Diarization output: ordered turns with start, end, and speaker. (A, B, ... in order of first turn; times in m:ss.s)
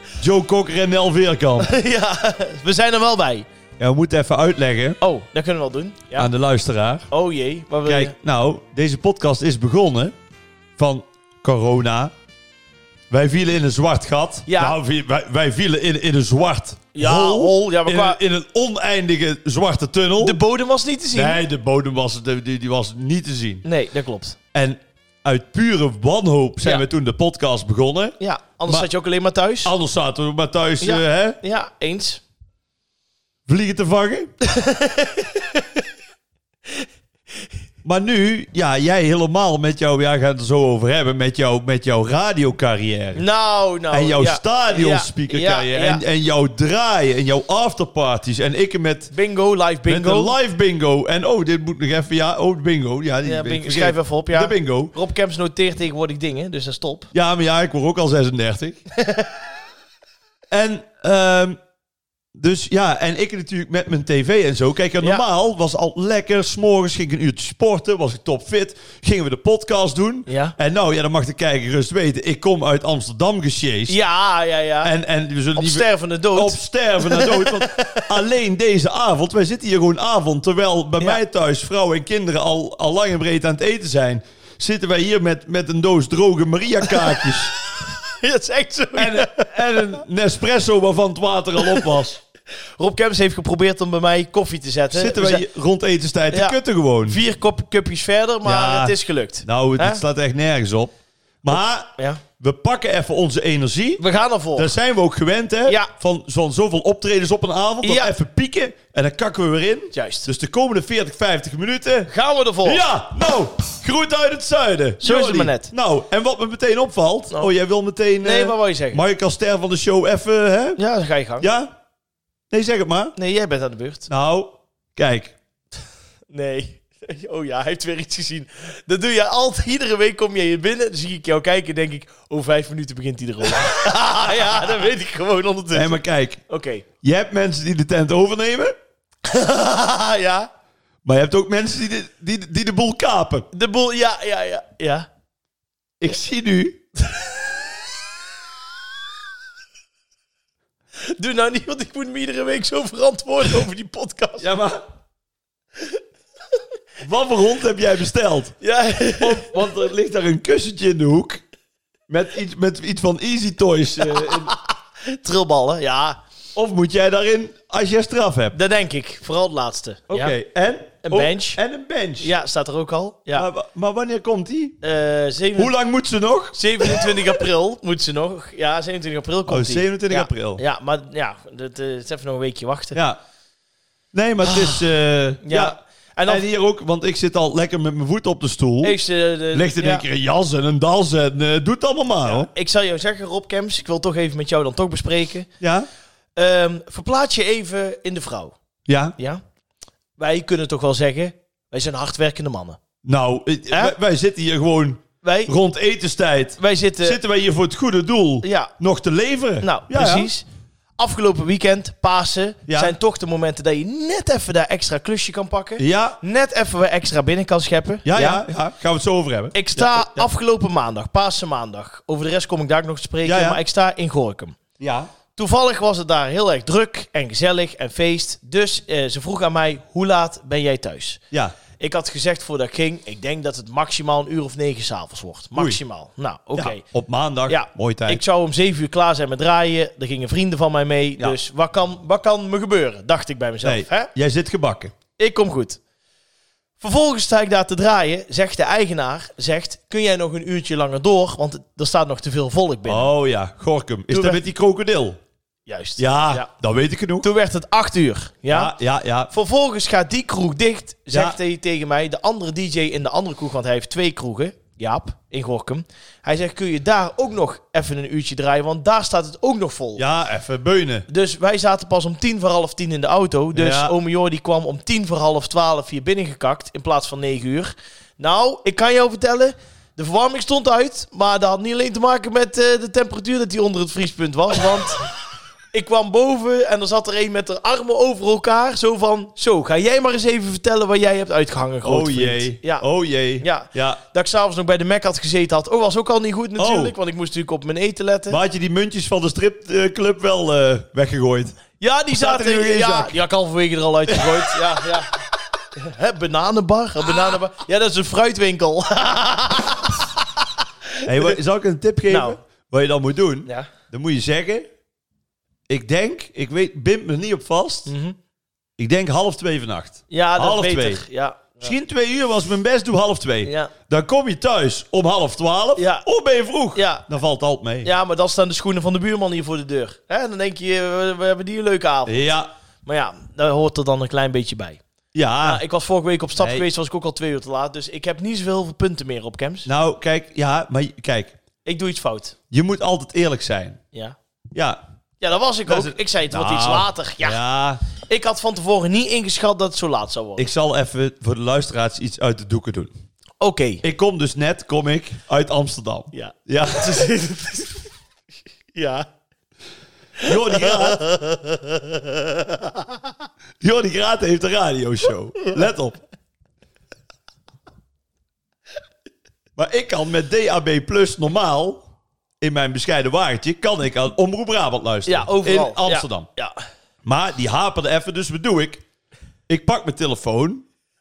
0:00.2-0:01.7 A
0:01.6-0:03.5 B
0:03.8-0:05.0 A
0:05.0-0:06.3 B
0:06.2-0:07.1 A
0:07.1-0:08.1 B
0:07.8-0:10.1 A
0:10.8-0:12.1 A
0:13.1-0:20.4 A
0:14.5-0:14.7 B
0:16.9-0:18.2 B
0:20.2-0:21.4 B
0:21.1-0:23.6 A
0:23.6-0:24.4 B
0:24.5-0:28.9 A
0:28.2-0:29.7 B
0:29.6-0:31.4 A
0:30.8-0:32.2 B
0:33.5-0:34.3 A
0:34.4-0:35.6 B
0:37.8-0:43.2 A
0:43.1-0:46.0 B
0:43.9-0:49.1 A
0:49.1-0:50.3 B
0:49.9-0:54.9 A
0:53.2-0:57.1 B
0:57.1-0:58.8 A
0:59.0-0:59.3 B
1:00.5-1:01.6 A
1:02.3-1:14.0 A
1:10.3-1:10.6 B
1:13.9-1:14.9 B
1:14.8-1:27.5 A
1:15.5-1:18.1 B
1:26.9-1:27.3 B
1:27.8-1:30.0 B
1:28.9-1:32.2 A
1:32.8-1:35.4 B
1:34.9-1:37.2 A
1:36.3-1:40.0 B
1:38.4-1:44.0 A
1:42.0-1:42.2 B
1:44.0-1:44.7 B
1:44.5-1:52.1 A
1:45.6-1:45.9 B
1:47.8-1:48.1 B
1:49.9-1:50.3 B
1:52.1-1:52.8 B
1:52.6-2:00.8 A
1:55.0-1:55.7 B
1:58.2-1:59.0 B
2:00.8-2:01.5 B
2:01.4-2:01.7 A
2:02.5-2:03.1 A
2:03.2-2:04.1 B
2:04.1-2:05.3 A
2:06.3-2:16.8 B
2:13.6-2:14.5 A
2:15.7-2:16.4 A
2:17.0-2:18.7 A
2:19.2-2:20.5 B
2:21.0-2:23.5 A
2:23.5-2:25.1 B
2:26.0-2:26.8 A
2:31.0-2:34.5 B
2:34.4-2:34.8 A
2:37.0-2:38.6 A
2:38.6-2:39.5 B
2:39.2-2:41.4 A
2:42.1-2:44.5 A
2:44.0-2:46.2 B
2:46.5-2:48.6 A
2:48.5-2:50.3 B
2:50.1-2:52.3 A
2:51.0-2:51.6 B
2:52.2-2:53.5 B
2:53.3-2:54.8 A
2:54.8-2:55.7 B
2:55.6-2:57.4 A
2:56.5-3:03.0 B
2:59.5-3:00.6 A
3:04.1-3:09.0 A
3:04.4-3:04.8 B
3:05.4-3:06.4 B
3:08.8-3:10.0 B
3:09.5-3:12.5 A
3:12.2-3:15.5 B
3:15.6-3:15.9 A
3:16.4-3:18.5 B
3:18.9-3:19.2 A
3:19.2-3:19.4 B
3:20.2-3:22.8 B
3:23.0-3:30.3 A
3:25.2-3:25.5 B
3:26.6-3:27.2 B
3:28.4-3:28.7 B
3:29.6-3:30.4 B
3:31.0-3:38.4 B
3:32.7-3:32.9 A
3:35.8-3:36.2 A
3:38.0-3:40.3 A
3:39.5-3:44.6 B
3:43.2-3:43.6 A
3:44.8-3:45.1 A
3:45.4-3:51.2 B
3:51.8-3:56.8 B
3:55.5-3:55.8 A
3:56.6-3:58.2 A
3:57.5-4:04.1 B
4:03.6-4:04.9 A
4:05.2-4:05.8 B
4:06.8-4:13.1 B
4:12.8-4:15.2 A
4:14.1-4:14.4 B
4:15.7-4:16.5 B
4:16.0-4:17.3 A
4:17.2-4:18.7 B
4:18.5-4:19.3 A
4:19.3-4:30.0 B
4:21.1-4:21.4 A
4:30.0-4:31.0 A
4:31.1-4:45.1 B
4:33.5-4:33.9 A
4:45.7-4:52.8 B
4:51.8-4:54.0 A
4:53.4-4:58.4 B
4:56.6-4:57.0 A
4:58.3-5:01.6 A
5:01.8-5:05.2 B
5:02.2-5:03.2 A
5:04.1-5:04.5 A
5:05.8-5:10.0 B
5:11.0-5:11.3 B
5:11.0-5:14.7 A
5:12.1-5:12.4 B
5:15.7-5:17.9 A
5:17.9-5:18.2 B
5:18.8-5:21.0 A
5:20.1-5:21.7 B
5:21.6-5:27.9 A
5:23.4-5:23.7 B
5:25.8-5:26.0 B
5:26.7-5:27.0 B
5:27.8-5:32.3 B
5:32.0-5:32.5 A
5:32.8-5:34.8 B
5:35.1-5:35.6 A
5:35.4-5:39.7 B
5:36.4-5:36.6 A
5:39.6-5:41.4 A
5:41.6-5:42.4 B
5:42.5-5:43.8 A
5:44.5-5:44.8 A
5:45.2-5:47.4 B
5:45.7-5:47.8 A
5:47.9-5:50.5 B
5:50.4-5:52.9 A
5:53.4-5:53.8 B
5:53.8-5:57.1 A
5:56.1-5:57.8 B
5:58.7-5:59.0 B
6:00.2-6:01.2 A
6:00.2-6:01.4 B
6:03.6-6:06.0 A
6:09.6-6:11.8 A
6:12.4-6:16.3 A
6:15.0-6:16.5 B
6:17.0-6:18.8 A
6:19.5-6:20.6 A